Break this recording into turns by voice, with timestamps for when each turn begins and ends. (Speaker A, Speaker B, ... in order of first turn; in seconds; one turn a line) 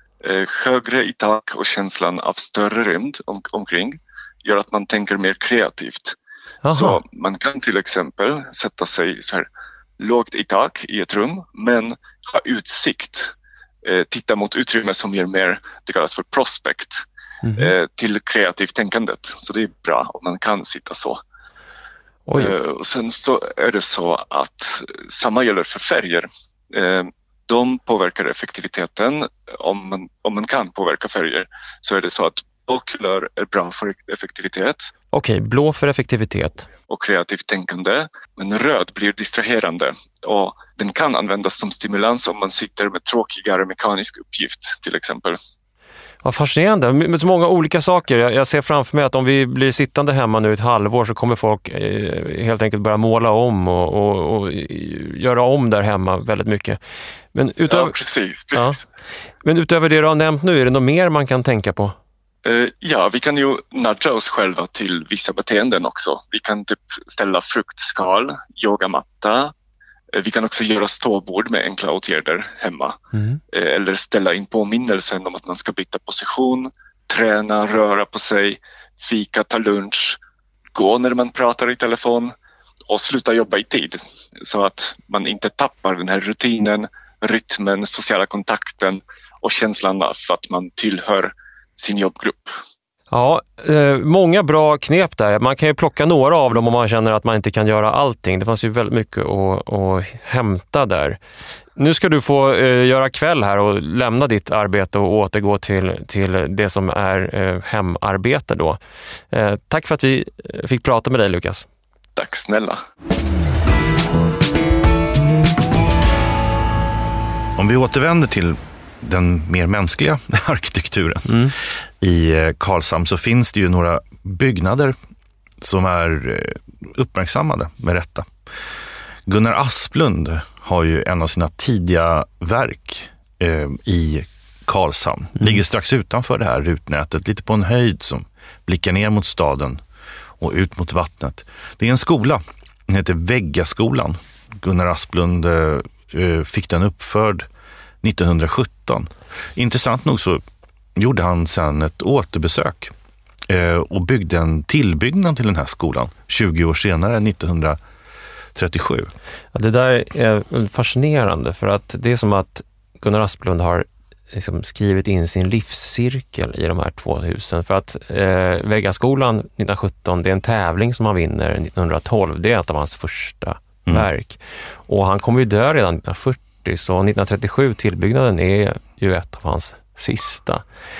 Speaker A: 0.2-6.2
Speaker B: 6.6-7.0
Speaker A: 6.7-9.4
Speaker A: 10.0-17.0
Speaker B: 17.4-17.7
Speaker A: 17.6-21.2
Speaker B: 22.3-22.5
Speaker A: 22.4-34.9
Speaker B: 35.1-36.7
Speaker A: 36.9-45.4
Speaker B: 46.2-56.8
Speaker B: 57.3-57.9
Speaker A: 57.7-58.8
Speaker B: 59.4-62.0
Speaker A: 62.4-69.5
Speaker A: 70.1-73.0
Speaker B: 73.1-73.4
Speaker A: 73.5-80.2
Speaker A: 80.7-82.3
Speaker A: 82.9-92.6
Speaker B: 93.1-101.2
Speaker B: 101.8-108.8
Speaker B: 109.3-111.7
Speaker A: 112.2-112.8
Speaker C: 117.6-121.4
Speaker B: 121.2-121.5
Speaker C: 122.0-125.0
Speaker C: 125.6-128.3
Speaker C: 129.2-139.8
Speaker C: 140.4-147.5
Speaker C: 148.0-150.4
Speaker C: 150.9-152.9
Speaker C: 153.5-157.8
Speaker C: 158.5-159.1
Speaker B: 159.5-180.6